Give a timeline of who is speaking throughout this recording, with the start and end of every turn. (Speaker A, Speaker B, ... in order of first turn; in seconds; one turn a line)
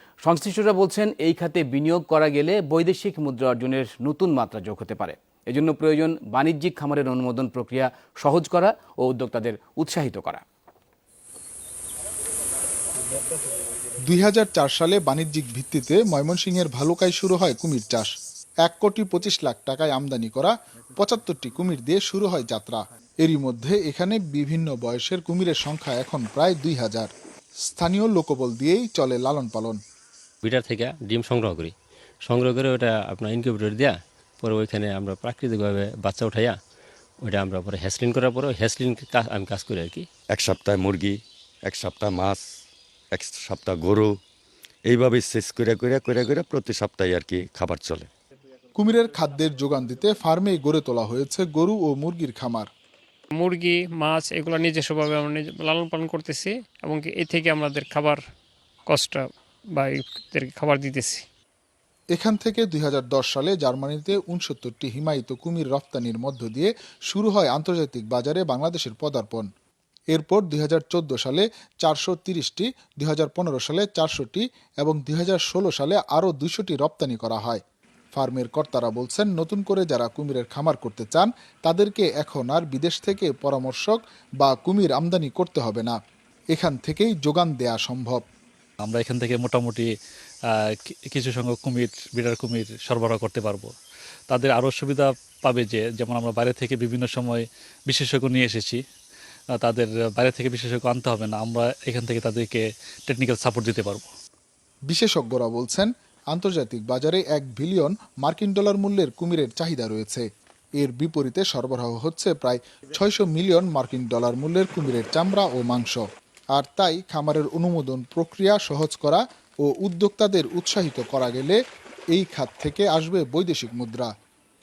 Speaker A: 0.2-10.4
Speaker B: 14.1-18.1
Speaker B: 18.6-27.1
Speaker B: 27.7-29.8
Speaker C: 30.4-31.7
Speaker C: 32.2-36.6
Speaker C: 37.2-40.1
Speaker D: 40.3-42.4
Speaker D: 43.1-44.1
Speaker D: 44.9-48.1
Speaker B: 48.8-52.7
Speaker E: 53.3-58.2
Speaker E: 58.9-61.3
Speaker B: 62.1-69.5
Speaker B: 70.1-77.6
Speaker B: 78.1-86.0
Speaker B: 86.5-88.2
Speaker F: 88.8-89.9
Speaker F: 90.5-93.7
Speaker F: 94.3-98.8
Speaker F: 99.6-104.1
Speaker B: 104.9-110.3
Speaker B: 110.8-116.0
Speaker B: 116.5-121.6
Speaker B: 122.1-124.1